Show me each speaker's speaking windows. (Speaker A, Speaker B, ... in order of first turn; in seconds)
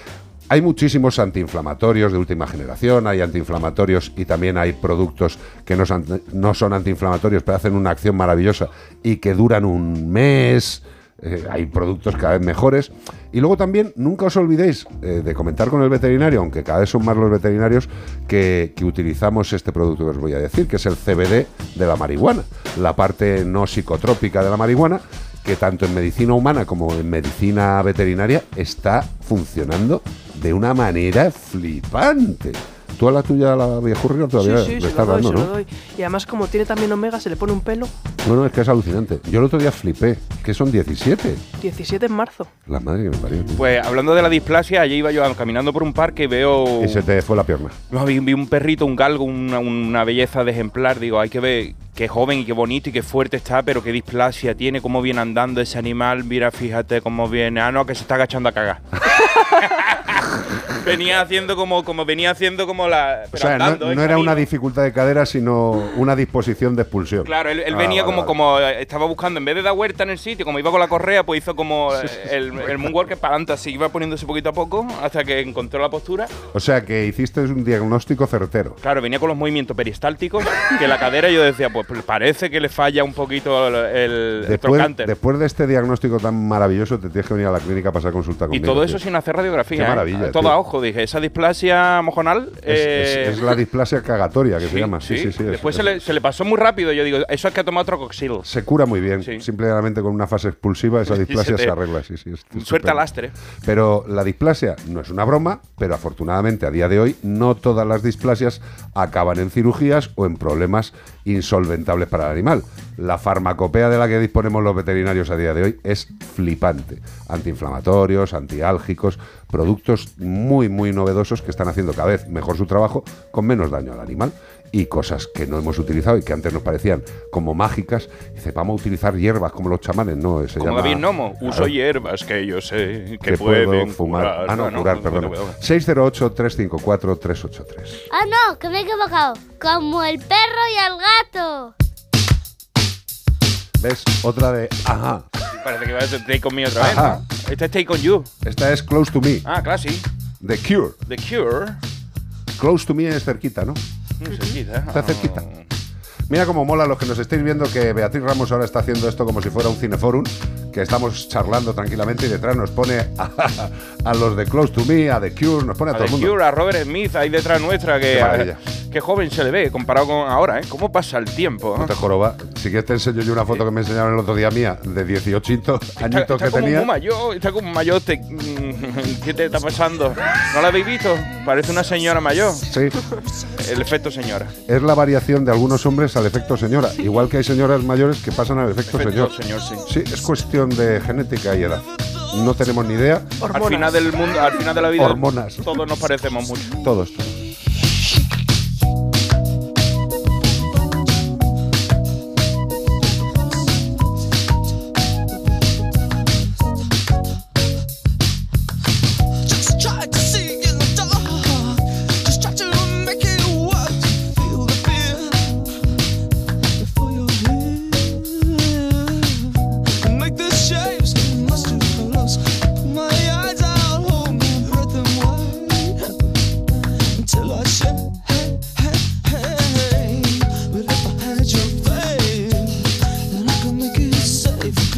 Speaker A: 0.5-35.5, 38.2-41.4, 42.7-43.6, 46.8-47.8, 63.4-68.3, 72.0-72.9, 76.5-78.8, 84.4-89.0, 89.8-90.5, 92.7-96.0, 98.4-103.1, 103.6-131.7, 133.2-138.0, 143.8-145.2, 146.8-147.2, 148.4-149.4, 150.4-151.0, 152.6-153.8, 154.9-155.5, 156.3-166.4, 168.1-168.6, 171.8-176.9, 182.7-183.0, 184.7-193.9, 194.9-195.7, 196.8-197.4
Speaker B: 34.4-37.9, 41.6-42.5
Speaker C: 43.6-47.0, 47.9-58.8, 59.5-60.2, 60.8-64.5, 67.2-76.3, 78.8-85.1, 88.5-93.5, 94.6-98.5, 101.1-101.8, 102.5-103.3, 130.6-135.6, 145.5-148.3, 149.4-150.1, 151.1-151.8, 154.2-155.7, 165.9-171.9, 176.0-182.7, 183.6-184.5, 188.9-190.0, 193.4-196.8
Speaker D: 138.1-141.7